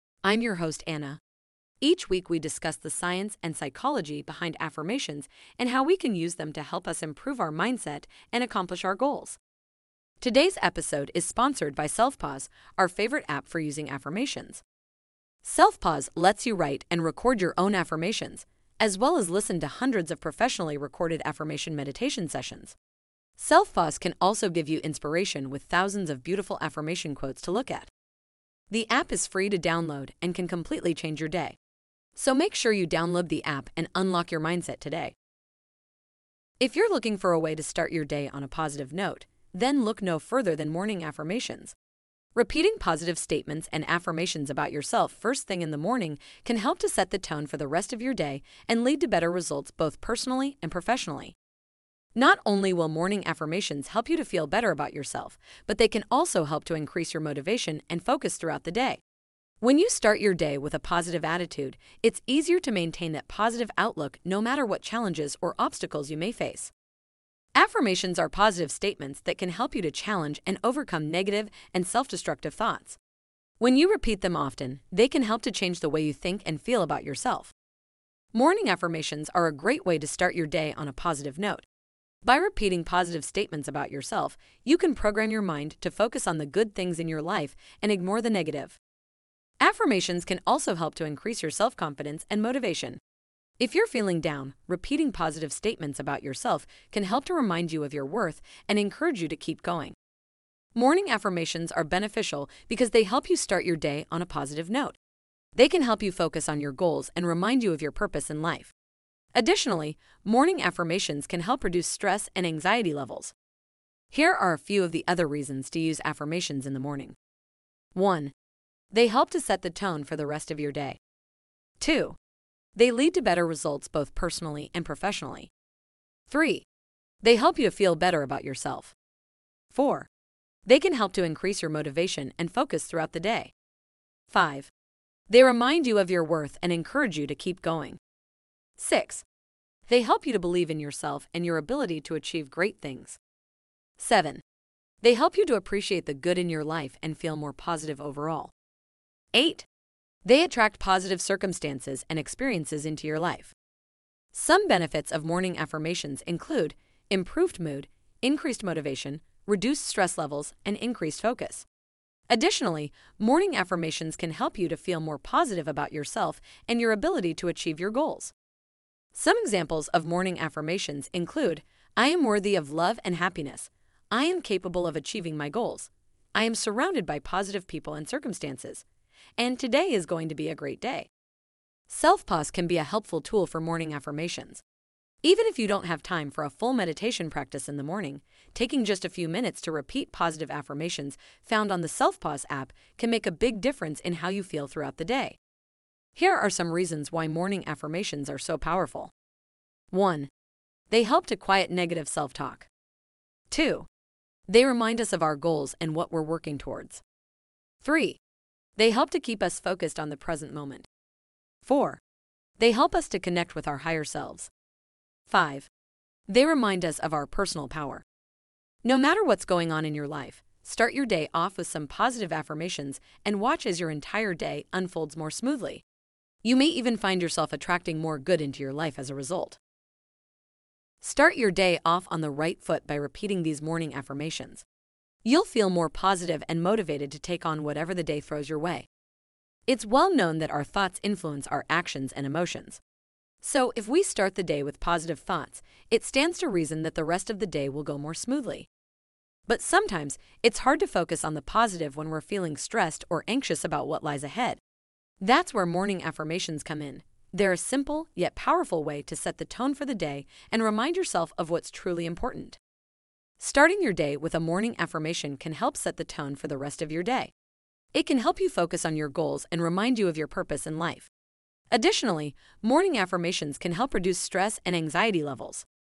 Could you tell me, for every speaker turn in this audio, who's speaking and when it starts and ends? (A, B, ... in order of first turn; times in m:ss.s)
0:00.2-0:01.2 A
0:01.8-0:09.4 A
0:10.2-0:14.6 A
0:15.4-0:22.7 A
0:23.4-0:27.9 A
0:28.7-0:31.6 A
0:32.2-0:35.1 A
0:36.6-0:41.7 A
0:42.3-0:51.3 A
0:52.1-0:59.0 A
0:59.6-1:06.7 A
1:07.6-1:13.0 A
1:13.6-1:17.5 A
1:18.3-1:21.7 A
1:22.2-1:28.8 A
1:29.6-1:33.0 A
1:33.6-1:40.0 A
1:40.8-1:45.0 A
1:45.6-1:48.7 A
1:49.3-1:53.3 A
1:54.1-1:57.2 A
1:58.0-1:58.3 A
1:58.9-2:01.0 A
2:01.8-2:02.2 A
2:02.8-2:05.5 A
2:06.3-2:06.6 A
2:07.2-2:08.9 A
2:09.7-2:10.1 A
2:10.7-2:13.5 A
2:14.3-2:14.7 A
2:15.3-2:18.0 A
2:18.8-2:19.2 A
2:19.9-2:23.2 A
2:24.0-2:24.4 A
2:25.0-2:28.5 A
2:29.3-2:29.7 A
2:30.2-2:33.5 A
2:34.3-2:41.7 A
2:42.3-2:48.3 A
2:49.1-2:58.8 A
2:59.4-3:01.1 A
3:01.9-3:04.6 A
3:05.2-3:15.4 A
3:16.2-3:19.1 A
3:19.9-3:20.3 A
3:20.9-3:22.7 A
3:23.5-3:23.9 A
3:24.5-3:27.0 A
3:27.8-3:28.2 A
3:28.8-3:30.9 A
3:31.6-3:32.0 A
3:32.6-3:34.5 A
3:35.3-3:35.7 A
3:36.3-3:38.0 A
3:38.8-3:45.8 A
3:46.4-3:49.6 A
3:51.0-3:54.6 A
3:55.2-3:58.9 A
3:59.7-4:02.8 A
4:03.4-4:08.7 A
4:09.5-4:14.6 A
4:15.2-4:22.6 A
4:23.4-4:27.3 A
4:27.9-4:31.1 A
4:31.7-4:35.6 A